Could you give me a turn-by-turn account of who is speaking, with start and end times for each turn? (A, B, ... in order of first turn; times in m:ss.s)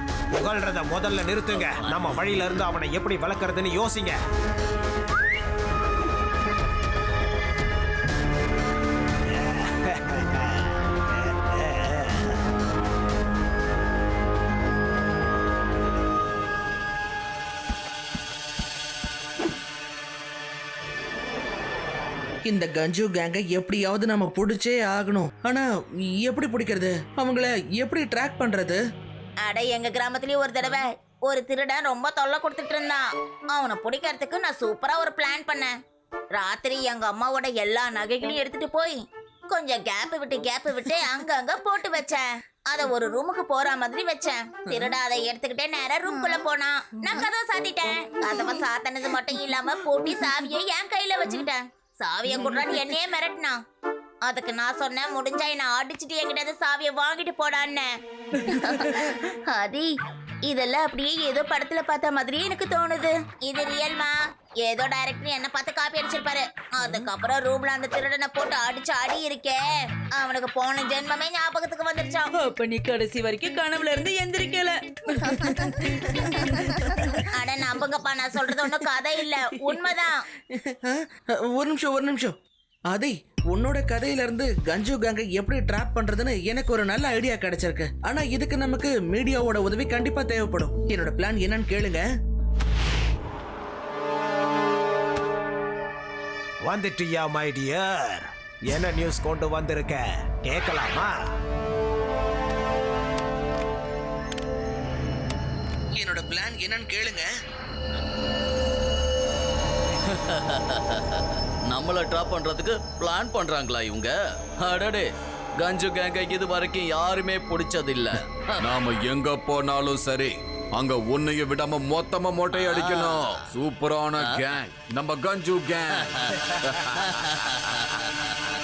0:00.3-0:04.2 A
0:01.5-0:02.2 B
0:09.3-0:12.3 A
0:22.4-0:28.8 C
0:29.4-0:35.7 D
0:36.3-0:53.6 D
0:54.2-0:57.9 D
0:58.4-0:59.9 D
1:00.4-1:12.3 D
1:12.3-1:16.3 E
1:15.6-1:17.2 C
1:17.3-1:20.2 D
1:19.7-1:20.0 C
1:20.5-1:22.3 C
1:22.9-1:32.0 C
1:36.6-1:41.2 A
1:45.9-1:47.3 C
1:50.1-1:55.1 B
1:55.6-1:58.5 B
1:58.6-2:07.5 F
2:02.5-2:03.4 B
2:06.2-2:06.5 B